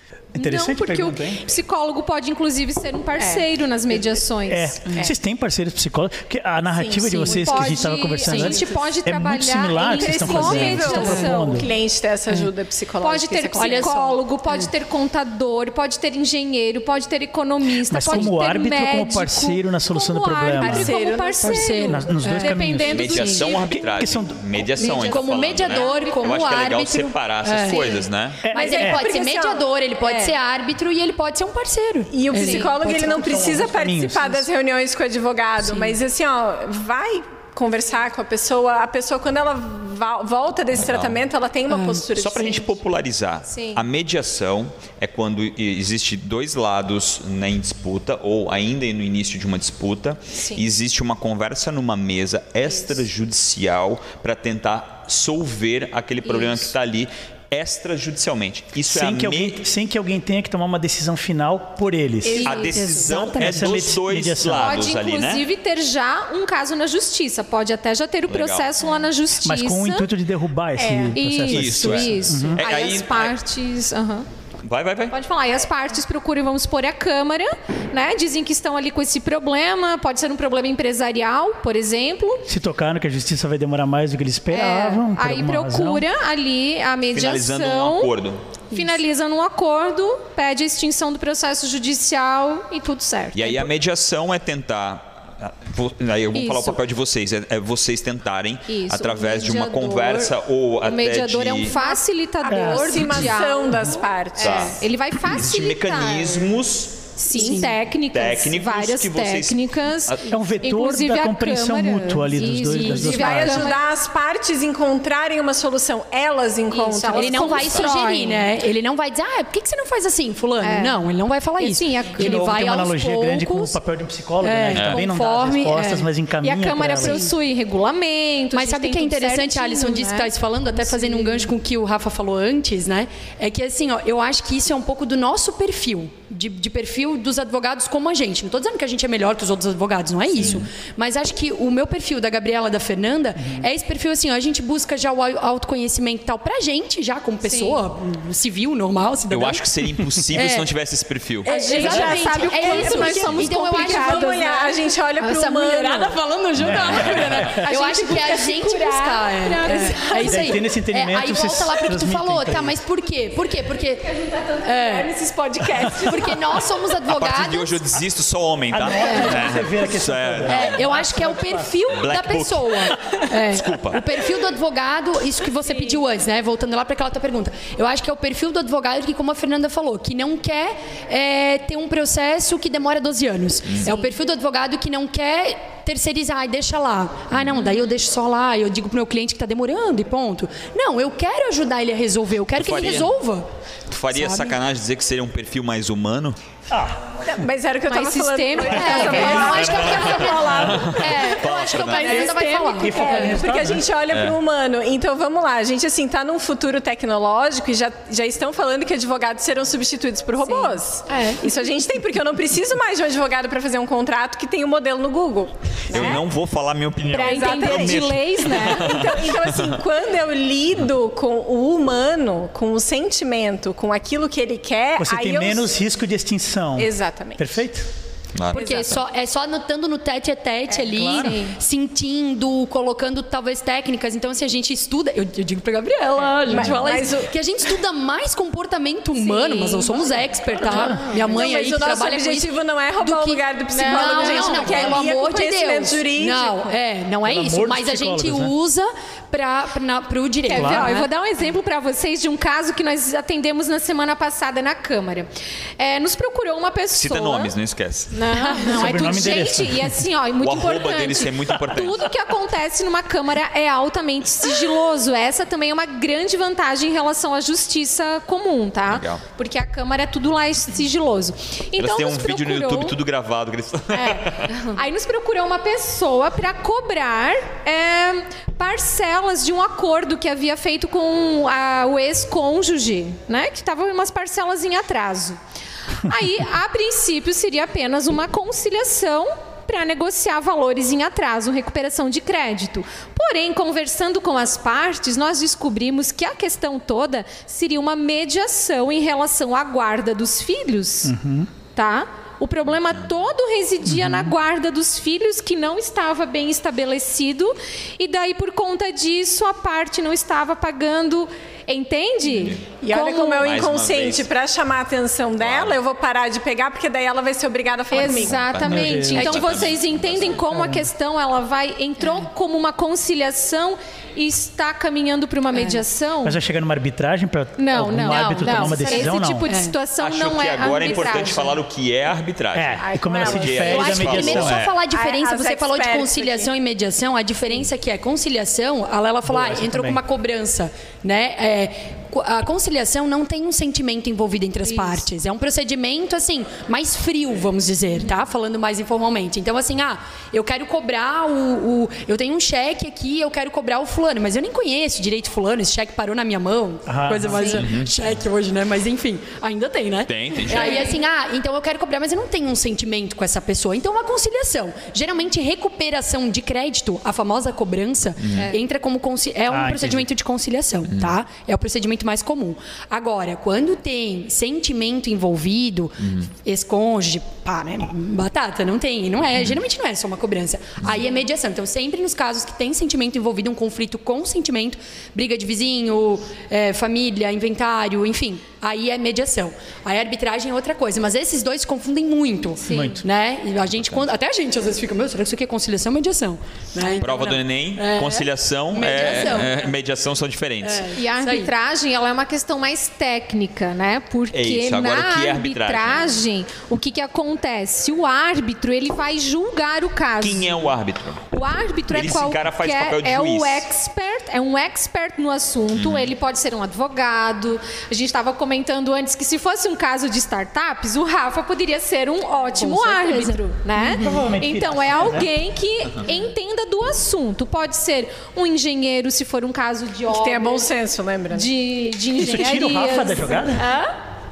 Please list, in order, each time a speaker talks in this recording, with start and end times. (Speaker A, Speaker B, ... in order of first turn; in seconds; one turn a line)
Speaker A: 0.3-4.8
Speaker B: 0.4-1.4
Speaker C: 3.2-3.5
Speaker B: 4.5-11.7
Speaker C: 6.7-7.8
Speaker D: 7.1-7.5
Speaker A: 7.3-11.6
Speaker D: 8.2-8.6
Speaker C: 8.4-8.9
Speaker C: 9.9-14.2
Speaker D: 10.9-11.3
Speaker A: 13.0-23.9
Speaker D: 13.5-13.9
Speaker B: 17.9-21.0
Speaker D: 18.1-18.3
Speaker C: 20.6-21.8
Speaker D: 21.4-23.4
Speaker B: 21.9-24.4
Speaker E: 22.9-28.4
Speaker A: 24.8-26.7
Speaker D: 24.8-28.0
Speaker A: 27.7-28.0
Speaker B: 28.4-29.1
Speaker D: 28.5-33.7
Speaker C: 28.5-30.3
Speaker C: 32.1-42.7
Speaker A: 32.3-32.7
Speaker B: 32.8-34.4
Speaker D: 35.6-36.0
Speaker E: 40.7-41.2
Speaker D: 41.7-42.0
Speaker E: 42.1-59.6
Speaker A: 43.5-43.8
Speaker A: 56.3-56.6
Speaker B: 58.8-62.5
Speaker C: 62.2-63.1
Speaker A: 62.2-62.8
Speaker E: 62.4-65.4
Speaker D: 62.8-63.6
Speaker B: 63.0-64.8
Speaker A: 64.5-70.1
Speaker E: 68.3-68.7
Speaker B: 69.4-72.6
Speaker C: 70.8-71.2
Speaker A: 71.1-74.2
Speaker E: 71.5-73.3
Speaker E: 74.6-75.1
Speaker A: 75.1-82.4
Speaker B: 82.5-86.0
Speaker A: 84.5-88.1
Speaker E: 87.1-88.4
Speaker A: 88.7-93.7
Speaker E: 93.3-101.7
Speaker A: 96.3-96.8
Speaker A: 98.7-100.3
Speaker A: 100.8-106.5
Speaker C: 101.7-104.7
Speaker B: 102.5-103.3
Speaker E: 104.4-107.1
Speaker A: 107.2-113.8
Speaker D: 107.3-107.7
Speaker E: 108.1-110.3
Speaker B: 110.3-113.7
Speaker D: 112.6-113.2
Speaker C: 112.9-118.0
Speaker A: 116.7-118.5
Speaker D: 117.1-123.8
Speaker A: 120.6-121.0
Speaker A: 121.6-122.4
Speaker B: 122.2-127.2
Speaker D: 124.4-126.1
Speaker E: 124.7-125.0
Speaker A: 126.4-131.4
Speaker D: 127.0-127.3
Speaker D: 128.5-149.7
Speaker E: 140.3-140.7
Speaker A: 147.4-147.8
Speaker E: 149.3-151.5
Speaker D: 150.3-150.7
Speaker C: 151.4-156.2
Speaker A: 151.4-154.6
Speaker D: 151.4-165.1
Speaker A: 155.2-155.7
Speaker B: 156.6-157.6
Speaker E: 156.8-157.4
Speaker C: 157.4-160.1
Speaker A: 157.6-160.4
Speaker B: 160.1-162.7
Speaker C: 164.2-166.7
Speaker D: 165.9-167.8
Speaker E: 167.1-170.8
Speaker B: 168.7-171.7
Speaker D: 169.0-169.5
Speaker D: 170.4-193.5
Speaker E: 172.0-174.0
Speaker A: 183.8-184.1
Speaker E: 192.6-193.1
Speaker E: 193.9-196.4
Speaker D: 194.1-194.6
Speaker B: 196.7-197.0
Speaker C: 197.2-216.2
Speaker A: 197.9-200.3
Speaker D: 198.6-203.4
Speaker E: 199.4-202.3
Speaker A: 202.0-202.8
Speaker B: 202.8-203.8
Speaker E: 204.1-204.4
Speaker A: 210.4-211.4
Speaker E: 215.9-219.8
Speaker C: 217.1-225.7
Speaker A: 217.1-219.0
Speaker B: 225.0-227.9
Speaker C: 226.8-227.5
Speaker E: 228.3-229.0
Speaker A: 228.5-229.0
Speaker D: 228.5-251.1
Speaker B: 230.9-231.3
Speaker A: 231.2-231.6
Speaker C: 236.4-237.3
Speaker E: 236.5-237.0
Speaker A: 239.2-239.6
Speaker C: 239.3-239.9
Speaker B: 240.6-241.1
Speaker C: 240.7-246.7
Speaker A: 243.7-245.0
Speaker B: 247.2-248.5
Speaker A: 250.5-255.3
Speaker B: 250.5-250.9
Speaker A: 255.8-257.5
Speaker E: 256.9-258.1
Speaker A: 258.1-272.9
Speaker B: 258.6-260.0
Speaker E: 260.4-262.1
Speaker E: 268.9-269.2
Speaker E: 271.8-274.7
Speaker A: 273.9-285.4
Speaker A: 286.0-301.1
Speaker B: 301.0-301.5
Speaker A: 301.7-313.5
Speaker B: 303.9-304.3
Speaker E: 312.3-312.6
Speaker C: 312.8-318.5
Speaker E: 313.4-314.3
Speaker E: 315.4-315.8
Speaker A: 317.9-326.4
Speaker E: 318.1-320.4
Speaker B: 318.6-319.6
Speaker B: 320.5-320.9
Speaker D: 322.0-322.3
Speaker D: 325.5-325.8
Speaker B: 326.2-329.6
Speaker A: 327.6-331.6
Speaker D: 328.1-329.8
Speaker E: 330.0-334.7
Speaker B: 332.5-334.6
Speaker C: 332.8-336.5
Speaker D: 333.7-399.8
Speaker B: 339.3-340.0
Speaker A: 344.6-345.0
Speaker B: 356.9-357.6
Speaker A: 357.2-357.6
Speaker E: 357.5-357.9
Speaker E: 360.1-360.9
Speaker A: 360.5-361.0
Speaker A: 368.3-368.6
Speaker B: 369.5-370.1
Speaker A: 392.6-393.0
Speaker B: 392.7-393.0
Speaker E: 393.7-394.1
Speaker E: 397.0-400.9
Speaker D: 400.6-401.5
Speaker A: 400.9-410.7
Speaker E: 404.3-406.2
Speaker E: 410.2-411.3
Speaker A: 411.3-430.7
Speaker E: 411.9-413.6
Speaker E: 415.8-416.1
Speaker D: 422.5-424.1
Speaker B: 424.0-425.3
Speaker C: 430.1-431.5
Speaker A: 431.3-433.9
Speaker B: 432.2-433.7